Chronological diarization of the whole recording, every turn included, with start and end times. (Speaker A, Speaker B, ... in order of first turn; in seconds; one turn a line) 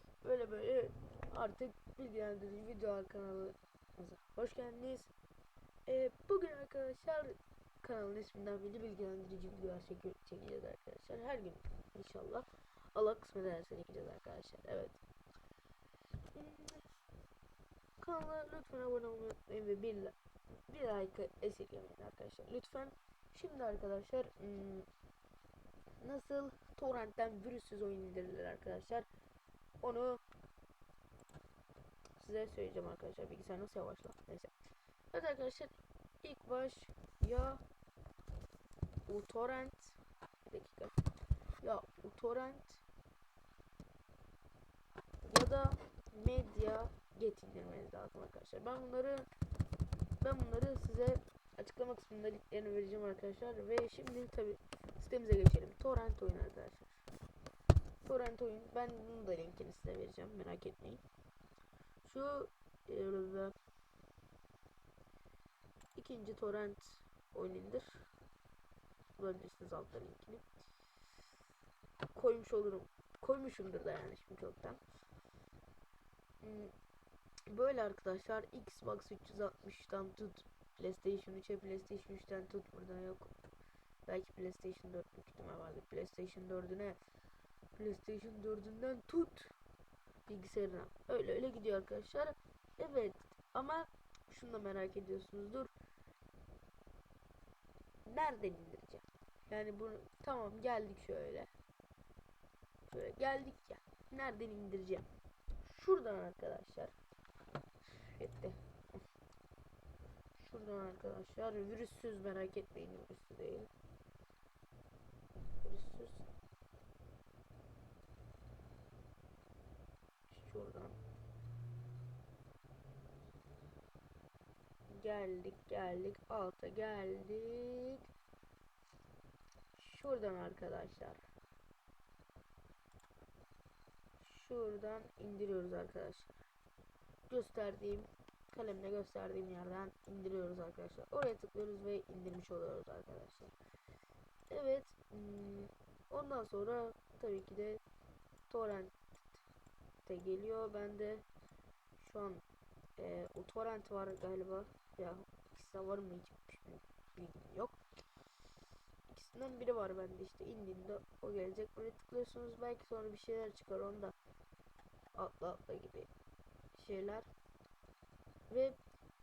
Speaker A: 0.2-5.1
Speaker A: 5.9-15.0
Speaker A: 16.3-16.9
Speaker A: 18.0-20.1
Speaker A: 20.7-24.9
Speaker A: 26.0-29.1
Speaker A: 29.8-30.2
Speaker A: 32.2-34.5
Speaker A: 35.1-37.6
Speaker A: 39.1-41.0
Speaker A: 41.6-42.8
Speaker A: 45.3-49.3
Speaker A: 50.2-56.8
Speaker A: 58.0-61.0
Speaker A: 62.0-63.5
Speaker A: 66.0-68.1
Speaker A: 69.2-70.5
Speaker A: 72.1-74.8
Speaker A: 76.4-76.7
Speaker A: 77.5-83.3
Speaker A: 84.1-87.0
Speaker A: 87.8-89.5
Speaker A: 90.3-95.7
Speaker A: 98.0-101.5
Speaker A: 102.9-105.1
Speaker A: 105.6-106.9
Speaker A: 108.1-108.6
Speaker A: 110.4-113.7
Speaker A: 115.6-116.2
Speaker A: 120.3-121.0
Speaker A: 124.9-128.1
Speaker A: 129.7-131.2
Speaker A: 134.2-136.3
Speaker A: 137.3-143.5
Speaker A: 144.5-147.8
Speaker A: 148.5-149.0
Speaker A: 150.0-151.2
Speaker A: 152.0-152.4
Speaker A: 153.0-157.8
Speaker A: 159.1-164.2
Speaker A: 165.2-166.1
Speaker A: 166.7-167.3
Speaker A: 168.5-168.8